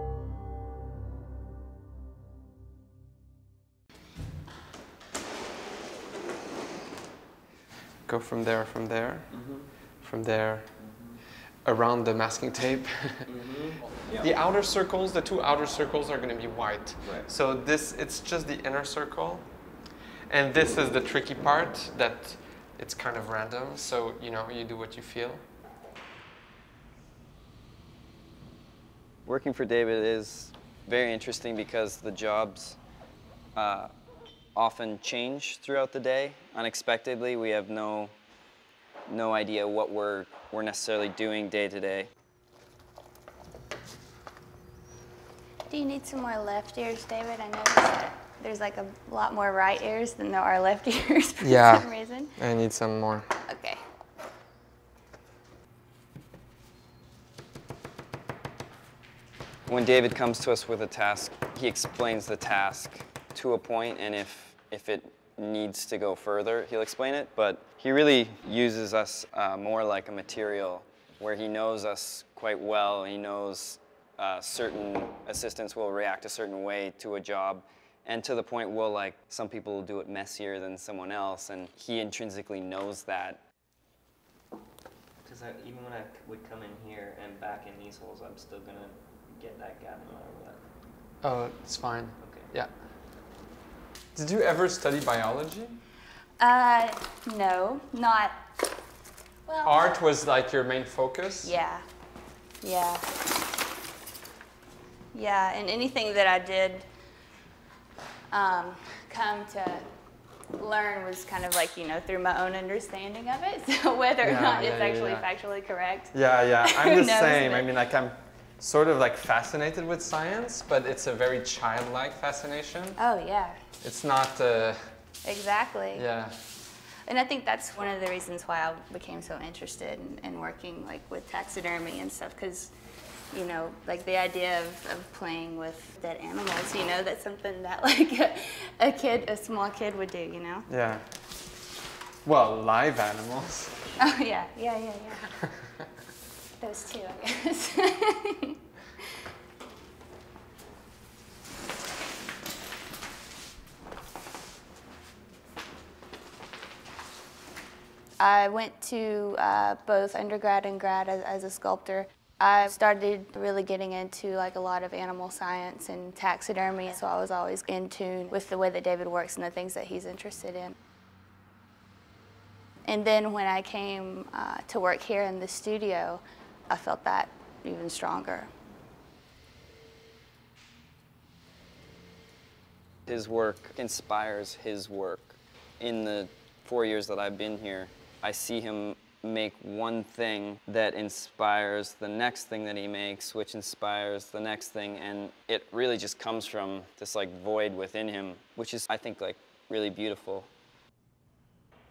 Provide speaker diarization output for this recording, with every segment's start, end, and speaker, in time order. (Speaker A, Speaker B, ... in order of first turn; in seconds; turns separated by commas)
Speaker A: 8.1-11.0, Speaker B: 9.3-9.9, Speaker B: 10.8-11.2, Speaker A: 11.6-13.4, Speaker B: 13.3-14.2, Speaker A: 14.0-19.7, Speaker A: 20.3-25.4, Speaker C: 29.2-32.8, Speaker C: 33.5-33.9, Speaker C: 34.5-38.1, Speaker C: 39.1-42.1, Speaker D: 45.7-52.3, Speaker A: 51.4-51.9, Speaker A: 52.4-53.3, Speaker D: 53.5-53.8, Speaker C: 59.7-83.4, Speaker B: 85.2-90.7, Speaker A: 91.2-92.7, Speaker B: 92.2-92.5, Speaker A: 94.1-95.8, Speaker D: 96.4-98.3, Speaker D: 99.5-99.8, Speaker A: 99.6-101.5, Speaker D: 101.4-101.8, Speaker D: 102.6-103.0, Speaker D: 105.1-106.9, Speaker D: 108.3-109.8, Speaker D: 110.6-117.7, Speaker A: 114.2-115.2, Speaker A: 116.1-123.0, Speaker D: 123.0-123.6, Speaker A: 123.8-124.8, Speaker D: 125.2-126.1, Speaker A: 125.9-126.4, Speaker D: 127.0-132.7, Speaker D: 133.3-140.7, Speaker A: 140.7-141.0, Speaker A: 142.2-143.7, Speaker D: 144.0-145.3, Speaker D: 146.6-148.6, Speaker D: 158.2-170.8, Speaker D: 172.8-178.5, Speaker C: 183.1-200.5